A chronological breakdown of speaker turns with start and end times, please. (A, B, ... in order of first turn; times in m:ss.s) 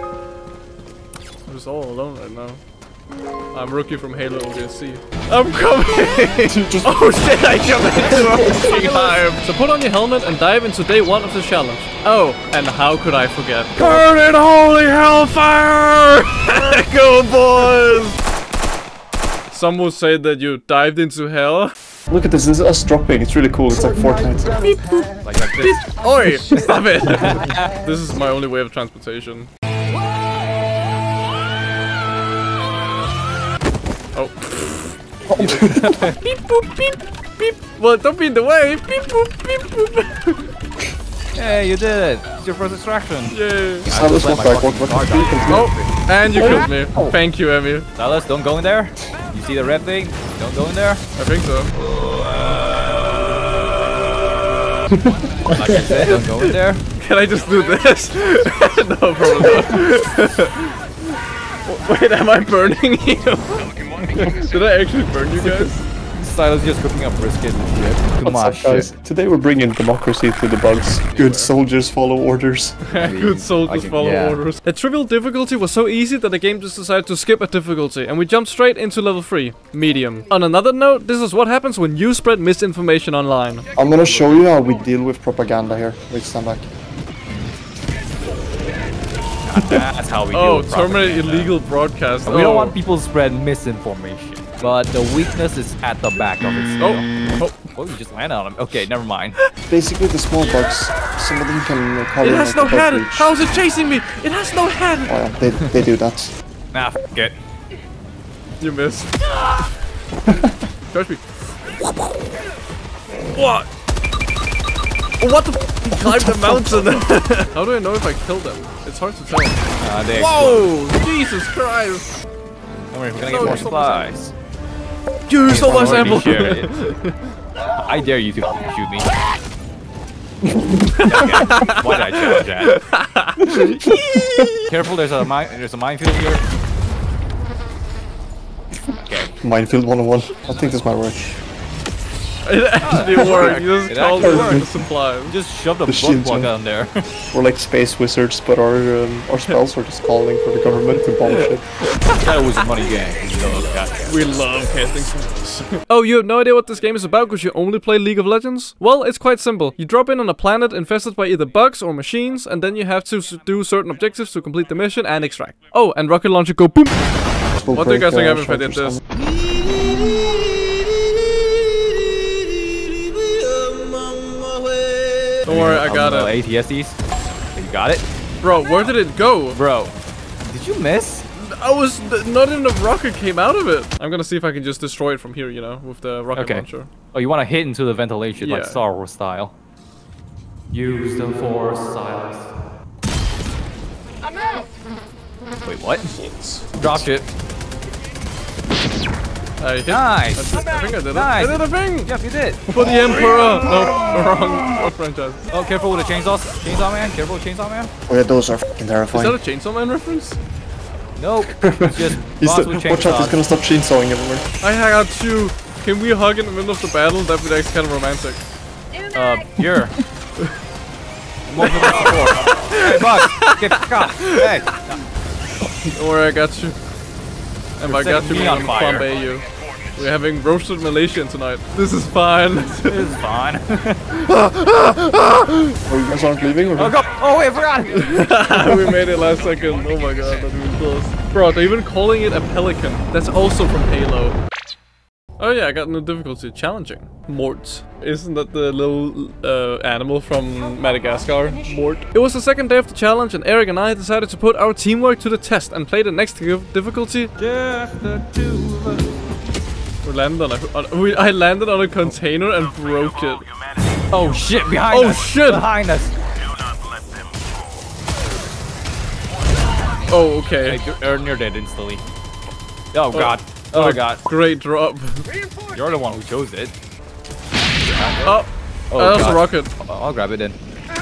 0:01.4-0:02.6 A
0:03.5-0:18.2 A
0:06.4-0:07.2 B
0:08.1-0:08.8 C
0:13.8-0:14.1 C
0:19.5-0:21.7 A
0:22.1-0:24.7 B
0:24.5-0:29.5 A
0:25.2-0:27.7 C
0:34.2-0:35.0 A
0:35.3-0:36.1 B
0:35.4-0:36.2 C
0:36.2-0:40.5 A
0:41.4-0:47.2 C
0:43.3-0:43.9 A
0:43.9-0:45.7 B
0:45.5-0:47.9 A
0:48.0-0:51.0 C
0:51.2-0:51.7 A
0:55.5-0:56.8 C
0:56.1-1:00.8 A
1:01.6-1:05.8 A
1:05.4-1:08.9 C
1:08.2-1:12.8 B
1:11.1-1:11.5 A
1:12.8-1:23.7 A
1:13.0-1:14.4 C
1:23.8-1:26.7 B
1:24.1-1:24.3 C
1:29.5-1:31.6 C
1:30.3-1:32.8 A
1:32.3-1:37.1 C
1:36.8-1:37.7 A
1:37.7-1:39.4 C
1:39.7-1:43.3 B
1:42.2-1:45.2 A
1:45.1-1:46.3 B
1:46.7-1:47.4 C
1:48.6-1:49.6 A
1:50.9-1:52.2 A
1:53.3-1:53.7 A
1:55.2-2:02.1 A
1:56.0-1:56.9 B
1:59.8-2:00.7 C
2:02.9-2:04.3 C
2:03.2-2:04.1 A
2:03.4-2:03.7 B
2:05.3-2:07.2 A
2:05.5-2:06.7 C
2:05.6-2:06.2 B
2:07.8-2:09.1 C
2:10.5-2:11.1 B
2:11.0-2:14.7 A
2:11.1-2:12.8 C
2:13.5-2:14.5 B
2:14.7-2:16.4 C
2:19.1-2:19.3 C
2:19.4-2:21.3 B
2:22.4-2:25.4 A
2:22.8-2:24.7 C
2:23.0-2:23.4 B
2:24.2-2:24.7 B
2:25.3-2:27.1 C
2:25.9-2:26.5 B
2:27.3-2:31.6 B
2:31.9-2:32.2 A
2:32.1-2:34.4 C
2:34.1-2:47.0 A
2:47.5-2:49.0 B
2:47.7-2:49.0 A
2:55.4-2:56.3 A
2:55.5-2:57.0 C
2:57.6-2:58.1 C
2:58.4-2:59.6 A
2:59.5-3:01.2 C
3:01.4-3:06.9 A
3:06.3-3:09.5 C
3:08.4-3:08.8 A
3:10.7-3:12.5 C
3:15.6-3:16.1 C
3:16.8-3:17.3 C
3:19.6-3:22.1 A
3:19.9-3:22.6 C
3:22.7-3:25.4 A
3:22.8-3:23.8 B
3:25.5-3:27.9 C
3:28.1-3:29.4 B
3:29.1-3:30.4 A
3:31.2-3:33.4 C
3:31.6-3:34.4 B
3:34.6-3:38.4 A
3:39.1-3:40.0 C
3:41.5-3:45.0 C
3:41.6-3:44.4 A
3:45.9-3:46.8 A
3:47.8-3:53.1 A
3:47.8-3:49.1 C
3:52.8-3:54.3 C
3:54.4-3:55.5 A
3:55.9-3:57.0 B
3:56.8-3:58.9 C
3:58.0-4:04.4 A
4:05.4-4:17.3 A
4:17.4-4:19.2 C
4:20.0-4:23.5 A
4:24.1-4:26.2 C
4:24.9-4:25.6 A
4:30.1-4:30.8 A
4:30.6-4:32.0 C
4:32.9-4:34.2 C
4:33.1-4:35.2 A
4:35.7-4:36.8 C
4:37.8-4:38.4 C
4:38.2-4:39.7 A
4:38.9-4:40.6 C